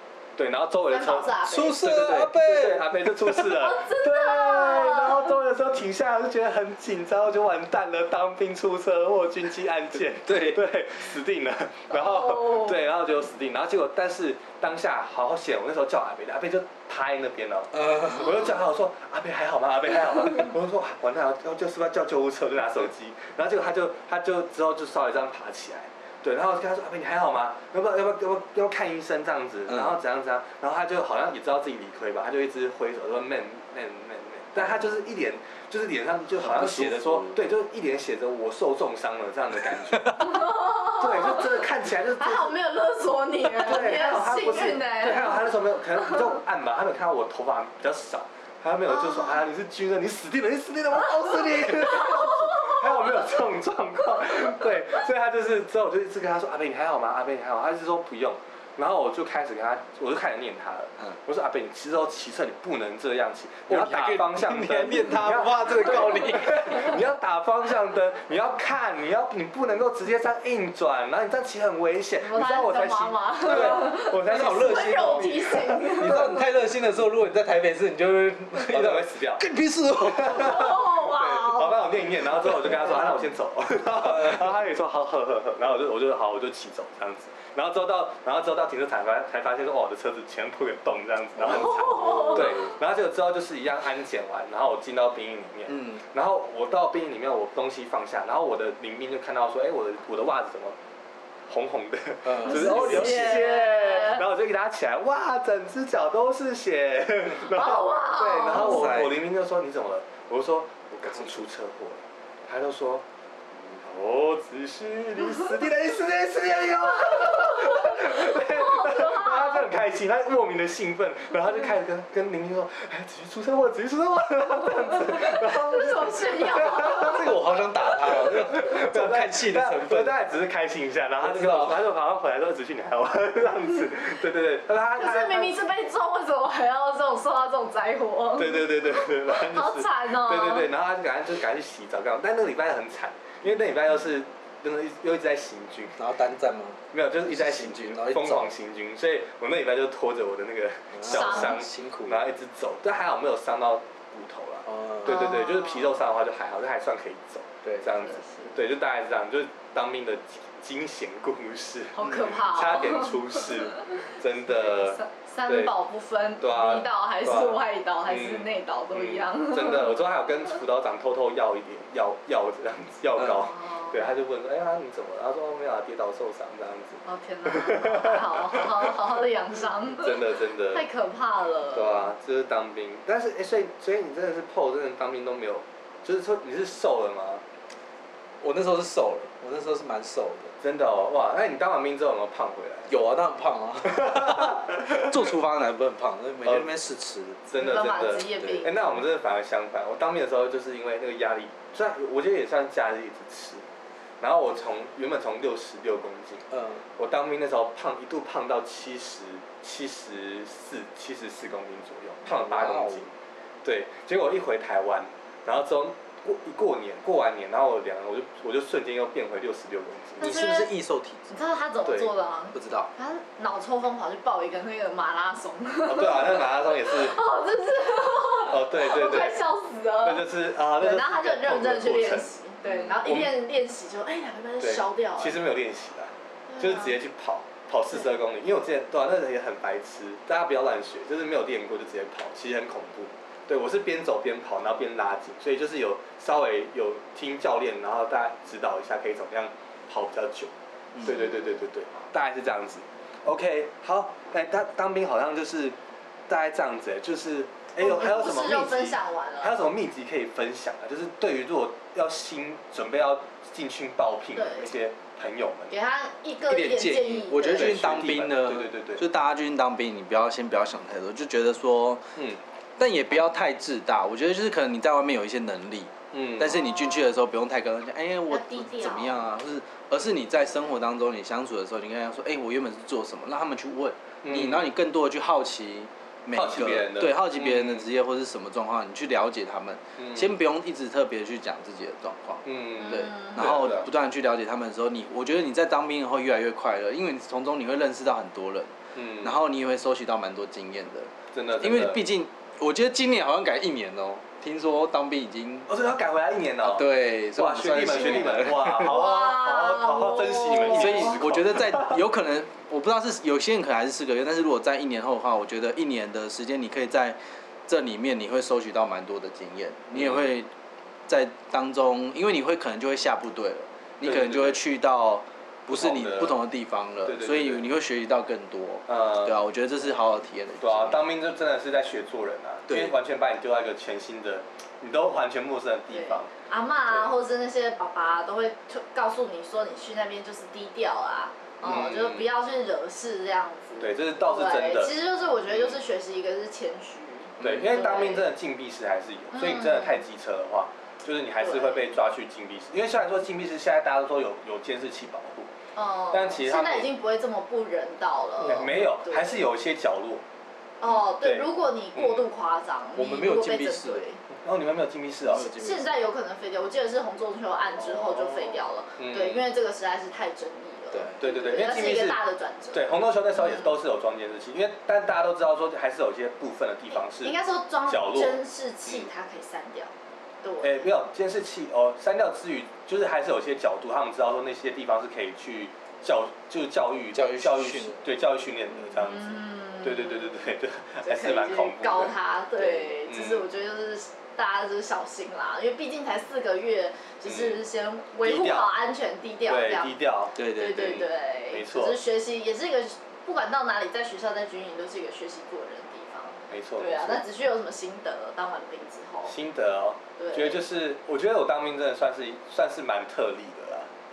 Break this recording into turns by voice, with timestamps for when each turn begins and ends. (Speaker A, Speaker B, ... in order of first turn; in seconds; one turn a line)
Speaker A: 0.4-40.2
Speaker B: 0.9-1.8
Speaker C: 1.4-3.5
Speaker B: 3.6-5.3
Speaker C: 10.2-10.6
Speaker B: 11.9-12.8
Speaker C: 17.7-18.5
Speaker C: 29.7-30.0
Speaker C: 34.6-34.9
Speaker C: 36.4-37.4
Speaker B: 40.2-41.6
Speaker A: 41.0-42.5
Speaker B: 42.2-45.4
Speaker A: 43.5-76.4
Speaker B: 48.9-49.4
Speaker B: 51.8-53.2
Speaker C: 63.7-67.0
Speaker B: 72.2-76.4
Speaker C: 73.5-80.8
Speaker A: 78.7-79.5
Speaker A: 80.0-100.8
Speaker B: 80.3-81.8
Speaker C: 82.6-82.9
Speaker C: 84.0-84.5
Speaker C: 91.4-92.6
Speaker B: 91.6-92.6
Speaker C: 95.7-96.0
Speaker A: 101.5-135.6
Speaker C: 102.2-103.4
Speaker B: 102.5-104.2
Speaker B: 107.5-109.0
Speaker C: 108.5-109.2
Speaker B: 117.1-119.7
Speaker B: 125.0-127.2
Speaker C: 126.6-130.1
Speaker C: 131.2-131.8
Speaker B: 135.0-140.7
Speaker A: 138.4-146.0
Speaker C: 146.0-148.5
Speaker A: 146.9-165.7
Speaker C: 150.9-152.3
Speaker B: 151.1-151.7
Speaker C: 154.7-155.2
Speaker B: 155.1-155.9
Speaker B: 158.0-158.6
Speaker B: 162.0-163.4
Speaker B: 164.6-169.9
Speaker A: 166.4-178.7
Speaker C: 173.2-173.4
Speaker B: 173.4-174.1
Speaker B: 177.1-182.1
Speaker A: 180.0-180.8
Speaker A: 181.7-187.4
Speaker C: 188.4-190.5
Speaker A: 190.6-192.9
Speaker C: 192.9-197.4
Speaker A: 193.9-195.3
Speaker A: 196.4-196.7
Speaker A: 197.5-203.6
Speaker B: 197.6-198.9
Speaker A: 204.2-206.5
Speaker C: 206.5-206.8
Speaker A: 207.0-213.1
Speaker C: 212.3-213.1
Speaker A: 213.6-220.4
Speaker C: 220.2-221.3
Speaker B: 220.2-220.7
Speaker B: 221.3-230.3
Speaker A: 221.9-222.1
Speaker C: 222.5-222.9
Speaker A: 225.9-227.2
Speaker A: 228.5-229.4
Speaker A: 230.0-232.3
Speaker B: 230.8-235.4
Speaker C: 232.7-233.0
Speaker A: 233.1-233.4
Speaker A: 234.6-255.8
Speaker B: 236.5-237.0
Speaker B: 251.1-251.6
Speaker A: 256.3-265.7
Speaker B: 257.8-259.5
Speaker B: 264.4-264.7
Speaker B: 265.7-267.8
Speaker C: 266.5-272.0
Speaker A: 267.5-269.1
Speaker C: 272.8-305.7
Speaker A: 276.1-276.6
Speaker B: 276.4-277.2
Speaker B: 278.3-279.2
Speaker A: 284.2-284.7
Speaker A: 286.3-287.9
Speaker A: 290.0-290.3
Speaker A: 292.4-293.9
Speaker B: 292.8-293.4
Speaker A: 298.9-299.4
Speaker A: 301.3-302.1
Speaker A: 305.7-312.0
Speaker C: 306.6-309.1
Speaker B: 308.9-311.2
Speaker C: 310.7-320.5
Speaker A: 319.9-320.3
Speaker C: 321.1-331.0
Speaker A: 324.0-324.6
Speaker A: 325.7-326.4
Speaker A: 327.1-327.7
Speaker A: 328.9-329.4
Speaker A: 330.6-336.3
Speaker C: 332.7-332.9
Speaker B: 335.9-348.3
Speaker A: 341.6-342.3
Speaker A: 343.8-344.9
Speaker A: 345.5-345.8
Speaker C: 347.4-347.7
Speaker A: 347.4-355.5
Speaker B: 349.3-350.0
Speaker B: 351.4-352.0
Speaker B: 355.8-359.4
Speaker A: 356.1-356.9
Speaker C: 358.4-358.9
Speaker A: 358.4-360.2
Speaker B: 360.8-364.2
Speaker A: 360.9-362.3
Speaker C: 363.0-364.1
Speaker A: 364.4-365.5
Speaker C: 365.3-366.0
Speaker B: 365.5-373.8
Speaker C: 367.9-368.6
Speaker A: 369.0-369.5
Speaker C: 370.9-371.2
Speaker A: 371.2-372.2
Speaker A: 372.7-379.1
Speaker B: 376.9-379.9
Speaker B: 380.4-380.9
Speaker A: 380.6-392.1
Speaker C: 387.1-388.0
Speaker B: 389.0-390.4
Speaker B: 391.0-400.0
Speaker A: 392.7-393.5
Speaker A: 397.3-397.6
Speaker A: 398.2-398.7
Speaker A: 399.5-402.0
Speaker C: 400.4-401.0
Speaker B: 400.6-409.3
Speaker A: 406.5-407.2
Speaker A: 409.3-413.9
Speaker B: 410.2-410.6